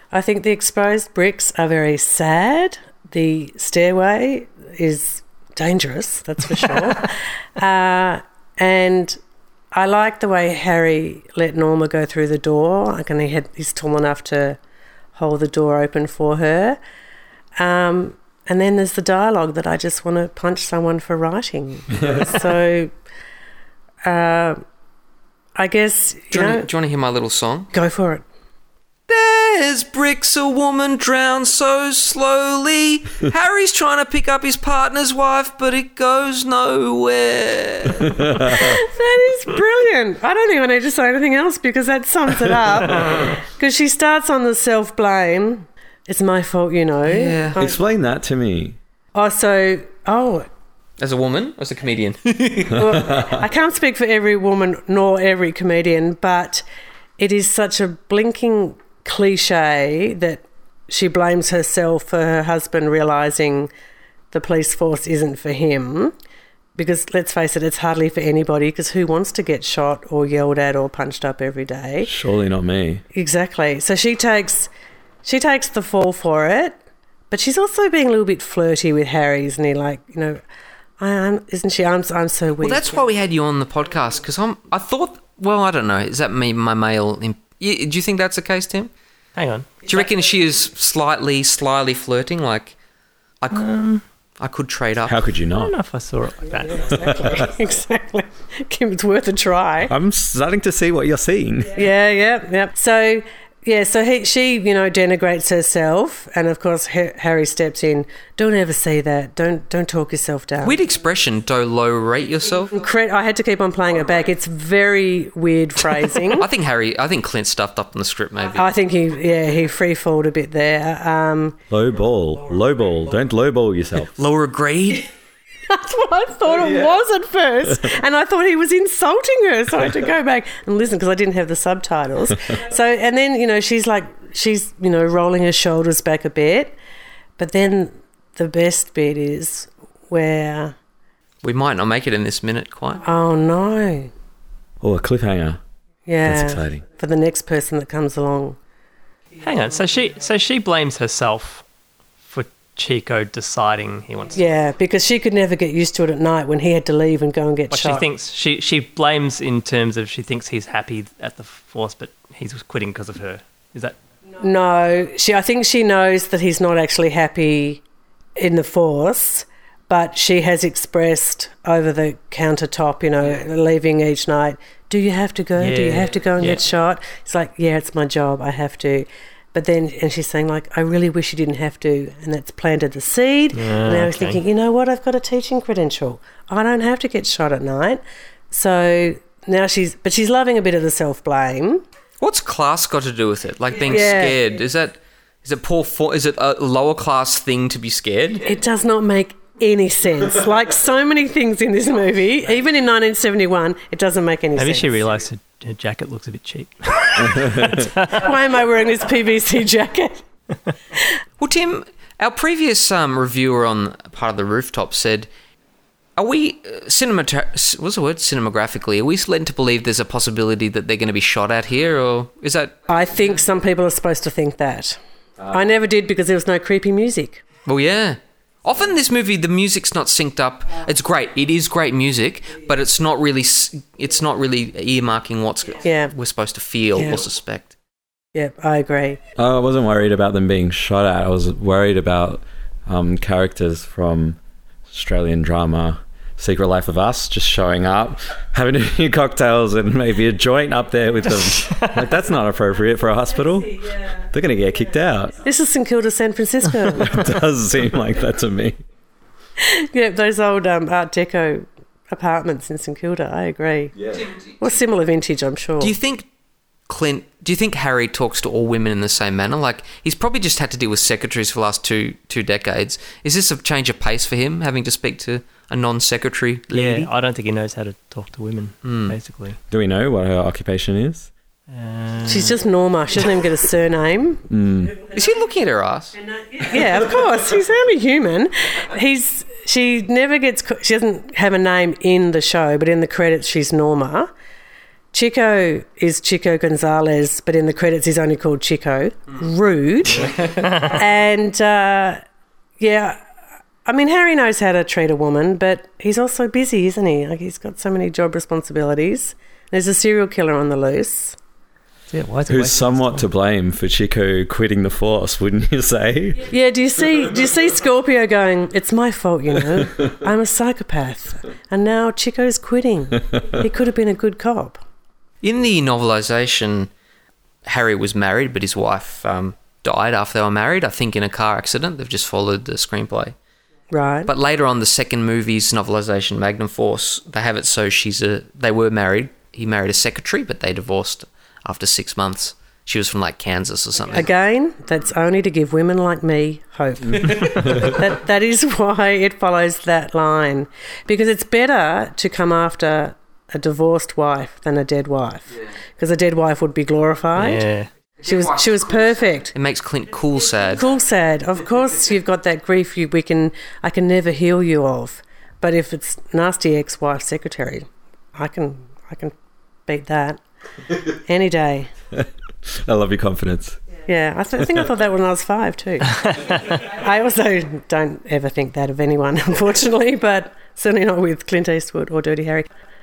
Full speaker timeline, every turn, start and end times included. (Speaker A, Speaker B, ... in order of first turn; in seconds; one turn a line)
Speaker A: 0.1-9.2
Speaker A: 9.7-14.6
Speaker A: 15.2-16.8
Speaker A: 17.6-22.9
Speaker A: 24.0-24.6
Speaker A: 25.6-26.7
Speaker B: 26.3-27.7
Speaker A: 27.7-28.2
Speaker B: 29.1-38.2
Speaker C: 38.0-38.8
Speaker A: 38.5-47.8
Speaker B: 47.1-47.6
Speaker C: 47.6-48.8
Speaker A: 49.1-50.5
Speaker B: 51.0-52.9
Speaker A: 52.7-56.6
Speaker C: 52.7-53.4
Speaker A: 57.2-63.7
Speaker A: 64.3-66.1
Speaker A: 66.8-72.1
Speaker C: 72.0-73.0
Speaker A: 73.1-74.7
Speaker A: 75.2-76.8
Speaker A: 77.3-80.4
Speaker A: 81.0-83.0
Speaker B: 82.6-88.9
Speaker D: 89.4-89.9
Speaker B: 89.8-92.8
Speaker B: 93.4-93.7
Speaker D: 93.5-94.0
Speaker B: 94.4-95.2
Speaker C: 95.0-95.7
Speaker D: 95.5-97.0
Speaker A: 96.6-99.9
Speaker C: 96.9-97.5
Speaker C: 99.9-101.9
Speaker A: 101.7-110.8
Speaker B: 110.6-112.7
Speaker A: 112.7-116.5
Speaker B: 116.3-118.7
Speaker A: 118.6-121.6
Speaker C: 121.7-124.1
Speaker B: 124.2-125.1
Speaker A: 125.7-136.8
Speaker C: 126.5-127.0
Speaker A: 137.4-140.8
Speaker B: 141.4-143.0
Speaker A: 143.0-144.1
Speaker C: 144.8-145.6
Speaker A: 146.1-148.6
Speaker C: 146.2-146.8
Speaker D: 149.4-151.6
Speaker D: 152.2-154.4
Speaker A: 154.3-158.1
Speaker D: 157.7-164.0
Speaker A: 164.4-167.8
Speaker A: 168.4-191.8
Speaker D: 175.6-176.6
Speaker D: 183.5-184.4
Speaker B: 192.2-198.5
Speaker A: 193.8-194.4
Speaker A: 198.4-205.0
Speaker D: 204.6-208.3
Speaker C: 207.2-207.8
Speaker A: 208.0-210.2
Speaker B: 211.4-215.3
Speaker B: 216.2-222.8
Speaker A: 222.9-225.0
Speaker A: 225.5-227.4
Speaker B: 227.7-237.7
Speaker A: 235.8-236.1
Speaker A: 237.0-237.2
Speaker A: 238.3-239.2
Speaker C: 239.4-244.4
Speaker C: 244.9-255.4
Speaker D: 251.4-252.1
Speaker A: 255.4-257.2
Speaker C: 256.9-258.8
Speaker A: 259.6-265.9
Speaker B: 265.8-266.3
Speaker B: 266.9-277.1
Speaker D: 276.7-279.6
Speaker B: 278.8-279.2
Speaker C: 279.7-281.3
Speaker D: 281.7-282.6
Speaker A: 282.2-284.5
Speaker C: 284.5-284.9
Speaker B: 285.1-286.2
Speaker A: 286.4-294.3
Speaker A: 295.1-302.2
Speaker D: 300.6-301.0
Speaker A: 302.8-303.2
Speaker A: 303.9-311.4
Speaker D: 312.1-313.3
Speaker C: 312.5-316.5
Speaker A: 316.4-324.8
Speaker B: 325.4-326.9
Speaker B: 327.6-333.4
Speaker A: 333.9-334.3
Speaker B: 334.3-344.3
Speaker A: 344.1-357.6
Speaker B: 347.3-347.8
Speaker C: 347.7-347.9
Speaker D: 357.4-357.9
Speaker A: 358.2-359.5
Speaker B: 358.2-360.8
Speaker A: 360.8-369.3
Speaker A: 369.9-370.4
Speaker A: 371.1-371.9
Speaker C: 372.1-373.8
Speaker A: 374.1-382.7